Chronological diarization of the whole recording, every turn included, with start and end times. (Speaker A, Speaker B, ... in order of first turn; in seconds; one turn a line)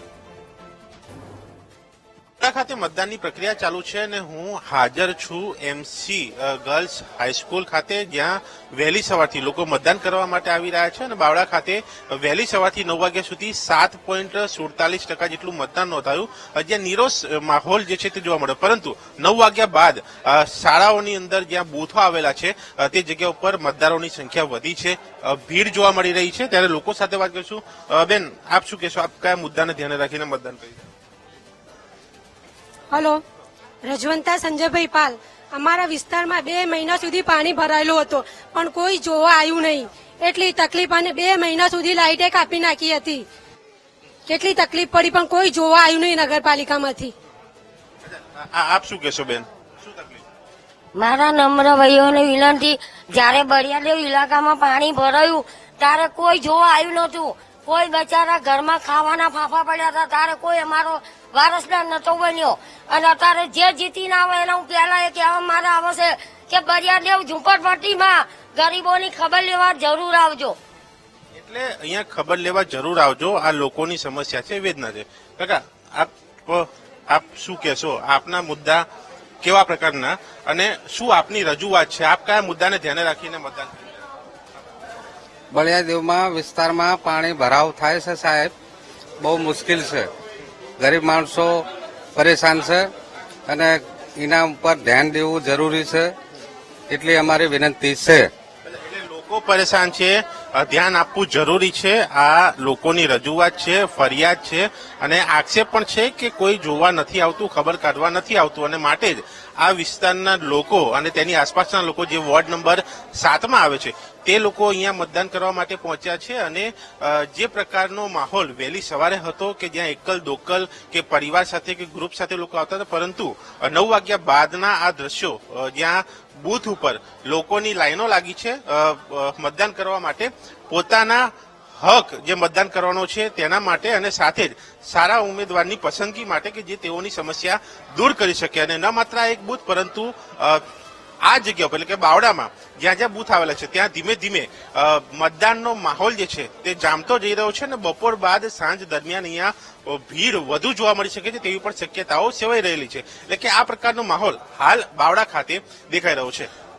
Speaker A: 2.4-30.8
Speaker B: 32.9-33.2
Speaker B: 33.8-43.3
Speaker B: 44.3-47.1
Speaker A: 48.0-50.2
Speaker C: 51.0-70.6
Speaker A: 71.3-78.9
Speaker A: 79.4-83.9
Speaker D: 85.5-88.5
Speaker D: 89.2-90.1
Speaker D: 90.8-92.9
Speaker D: 93.5-96.2
Speaker D: 96.9-98.3
Speaker A: 98.7-140.6
Speaker A: 141.2-156.5